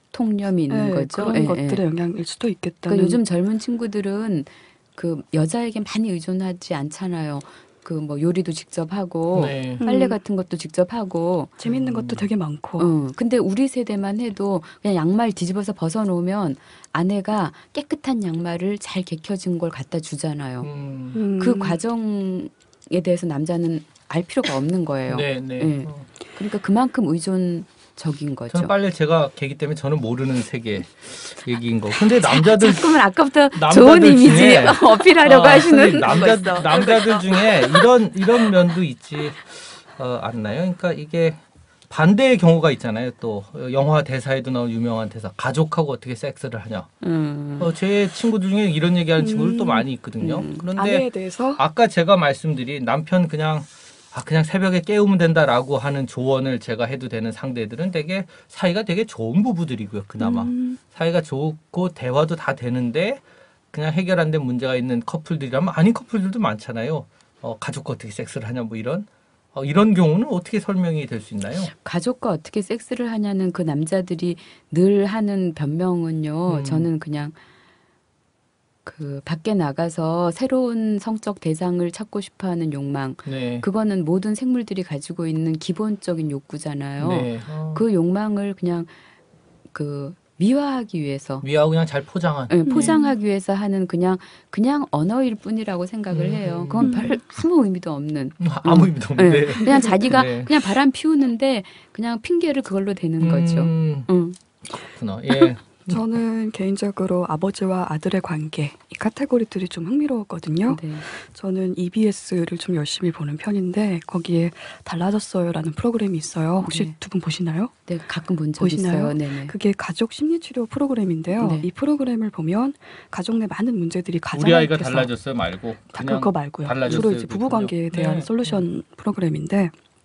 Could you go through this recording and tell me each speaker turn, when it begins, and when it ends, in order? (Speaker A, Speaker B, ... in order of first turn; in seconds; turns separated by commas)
Speaker A: 0.1-1.8, Speaker B: 0.7-3.2, Speaker A: 2.9-11.5, Speaker C: 9.3-9.8, Speaker B: 9.8-10.2, Speaker B: 11.6-12.9, Speaker C: 11.6-12.3, Speaker A: 12.8-20.7, Speaker C: 20.6-21.2, Speaker B: 21.1-21.8, Speaker A: 21.4-28.7, Speaker C: 25.1-26.1, Speaker C: 28.5-46.9, Speaker A: 32.2-37.8, Speaker A: 47.0-47.7, Speaker C: 47.6-71.7, Speaker B: 49.2-49.9, Speaker A: 50.2-50.6, Speaker B: 50.7-51.6, Speaker B: 60.2-60.8, Speaker A: 71.8-77.3, Speaker C: 76.5-76.9, Speaker A: 78.8-88.9, Speaker C: 83.2-83.7, Speaker C: 87.0-87.8, Speaker A: 89.7-91.4, Speaker C: 91.4-93.0, Speaker A: 92.5-104.4, Speaker B: 92.6-93.1, Speaker C: 96.1-97.1, Speaker B: 96.8-97.2, Speaker C: 98.4-100.5, Speaker C: 103.2-104.1, Speaker C: 104.7-106.0, Speaker B: 105.9-117.7, Speaker A: 110.7-111.0, Speaker A: 116.6-117.0, Speaker A: 117.9-119.5, Speaker B: 118.6-125.1, Speaker A: 121.4-121.7, Speaker C: 124.3-128.6, Speaker B: 125.9-129.7